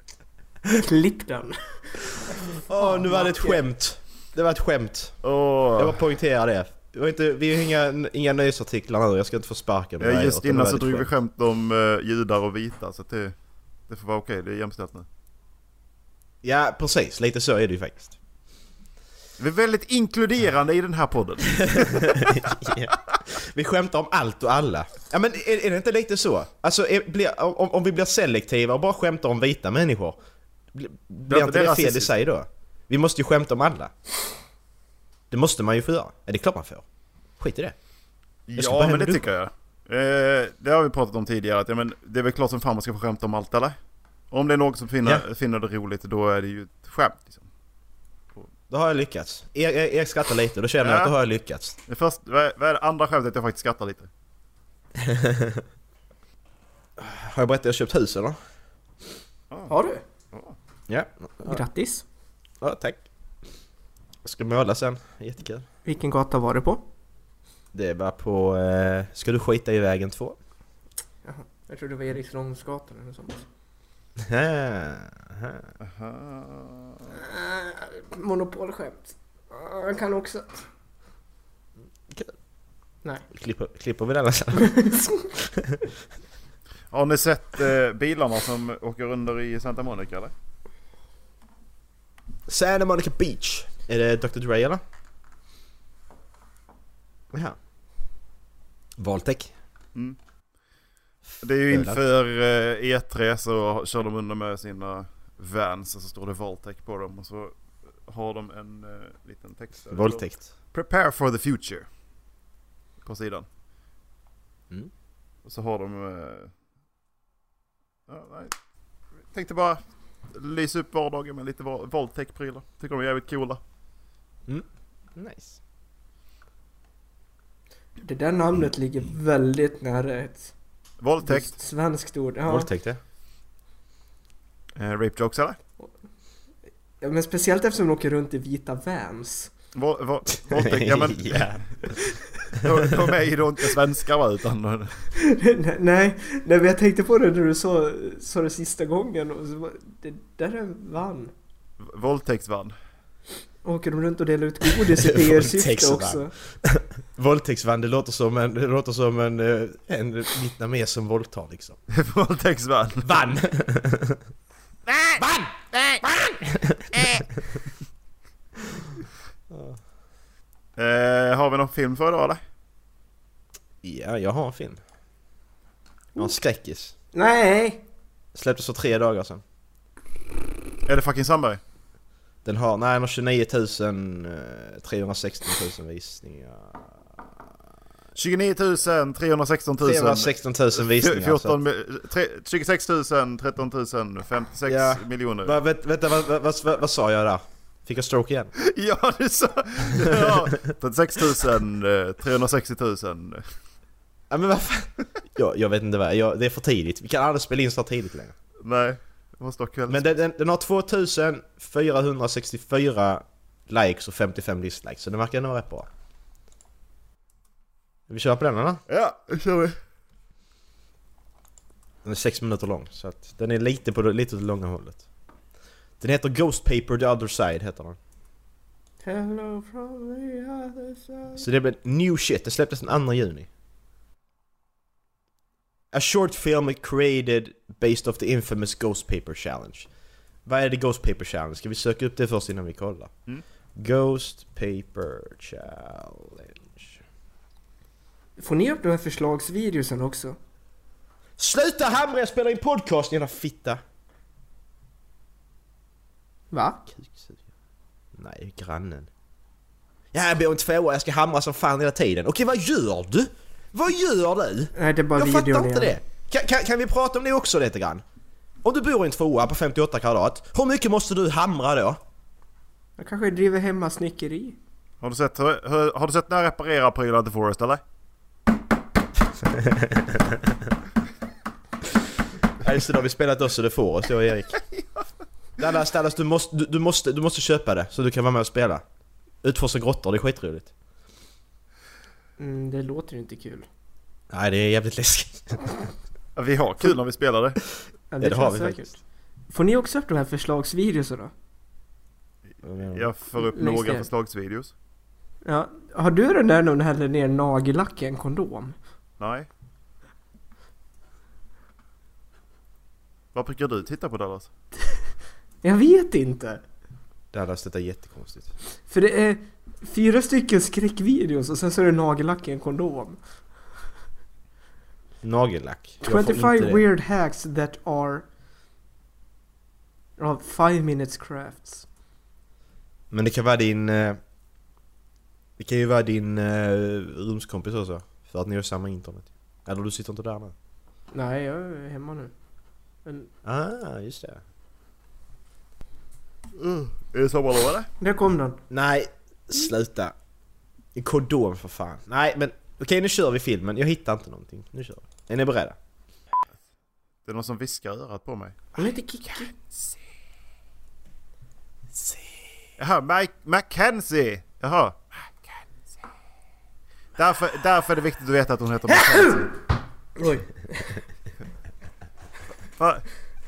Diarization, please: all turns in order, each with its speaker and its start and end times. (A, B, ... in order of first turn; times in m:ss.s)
0:00.7-0:03.6 A
0:02.6-0:05.2 B
0:05.2-0:06.0 C
0:05.8-0:11.1 B
0:10.0-0:13.3 C
0:13.9-0:15.1 C
0:16.4-0:18.2 B
0:19.4-0:22.4 C
0:21.7-0:30.2 B
0:30.7-0:33.9 B
0:31.3-0:32.1 C
0:35.3-0:36.8 B
0:37.4-0:37.8 B
0:38.5-0:43.8 C
0:38.6-0:39.2 B
0:44.3-0:47.5 C
0:48.7-0:51.8 B
0:50.8-0:51.1 C
0:51.9-0:54.1 C
0:55.0-0:55.6 B
0:57.0-0:58.4 B
0:59.7-1:00.0 A
1:00.9-1:01.6 B
1:01.4-1:02.0 A
1:02.6-1:03.0 B
1:04.2-1:05.7 B
1:05.8-1:06.8 A
1:07.7-1:10.4 B
1:11.2-1:13.4 A
1:14.2-1:15.7 B
1:15.8-1:17.1 C
1:17.1-1:20.7 A
1:23.3-1:24.8 B
1:24.6-1:25.1 A
1:25.4-1:25.8 B
1:26.9-1:30.3 C
1:32.5-1:34.8 B
1:39.0-1:39.5 B
1:41.4-1:47.6 C
1:41.7-1:42.0 B
1:48.1-1:51.9 C
1:49.9-1:50.4 B
1:53.0-1:53.4 C
1:55.4-1:56.5 C
1:58.1-1:58.5 C
1:59.3-1:59.8 C
2:00.3-2:03.6 C
2:04.5-2:05.6 B
2:08.0-2:10.5 A
2:11.0-2:11.5 C
2:11.2-2:12.7 A
2:12.5-2:13.0 B
2:14.8-2:15.6 C
2:17.0-2:19.5 A
2:19.8-2:21.6 C
2:20.4-2:22.0 B
2:22.5-2:25.1 C
2:25.1-2:31.3 A
2:31.8-2:32.8 C
2:33.6-2:36.3 A
2:34.7-2:41.8 B
2:41.9-2:43.2 C
2:43.0-2:44.2 B
2:44.9-2:45.2 C
2:45.2-2:47.3 B
2:45.7-2:46.0 C
2:47.0-2:47.2 C
2:49.5-2:49.8 B
2:50.8-2:52.4 C
2:53.8-2:54.8 B
2:56.2-2:57.0 B
2:57.1-2:57.8 A
2:58.3-2:59.4 B
3:00.9-3:01.6 C
3:02.4-3:07.2 B
3:08.1-3:10.3 C
3:09.8-3:11.6 B
3:10.8-3:15.6 C
3:14.7-3:18.5 B
3:18.6-3:23.5 C
3:20.0-3:20.5 B
3:24.3-3:28.4 B
3:28.6-3:30.0 C
3:29.9-3:35.9 B
3:38.1-3:38.8 B
3:38.9-3:39.8 C
3:42.0-3:45.0 B
3:46.0-3:48.0 B
3:49.0-3:51.5 A
3:51.4-3:53.5 B
3:55.9-3:59.9 B
4:00.4-4:03.1 B
4:03.8-4:07.0 B
4:08.4-4:10.4 A
4:11.4-4:13.8 B
4:16.5-4:16.9 A
4:17.0-4:17.4 B
4:18.1-4:19.1 B
4:20.1-4:28.0 B
4:24.8-4:26.0 A
4:28.6-4:32.0 B
4:33.0-4:34.6 A
4:35.0-4:37.8 C
4:39.5-4:40.4 B
4:42.6-4:44.6 B
4:45.6-4:48.8 B
4:49.4-4:50.7 B
4:52.4-4:53.7 A
4:54.3-4:55.6 B
4:56.4-4:57.6 C
4:58.1-4:59.0 A
4:58.2-4:59.0 B
4:59.5-5:01.3 A
5:02.6-5:03.1 B
5:02.8-5:04.7 C
5:03.5-5:04.1 A
5:05.4-5:08.8 A
5:09.2-5:09.5 C
5:13.3-5:14.5 C
5:15.6-5:16.6 A
5:17.3-5:18.5 B
5:18.9-5:23.2 A
5:25.2-5:26.8 B
5:26.0-5:28.3 A
5:30.2-5:31.9 A
5:33.1-5:34.2 B
5:35.6-5:40.5 B
5:41.1-5:42.3 A
5:43.0-5:43.3 A
5:43.4-5:44.4 B
5:46.6-5:47.9 C
5:48.0-5:48.6 A
5:48.7-5:50.1 B
5:51.0-5:55.8 B
5:57.3-5:58.7 C
5:58.8-5:59.5 A
6:02.8-6:05.5 C
6:07.2-6:09.5 C
6:09.0-6:09.3 A
6:10.2-6:11.0 A
6:12.8-6:13.2 C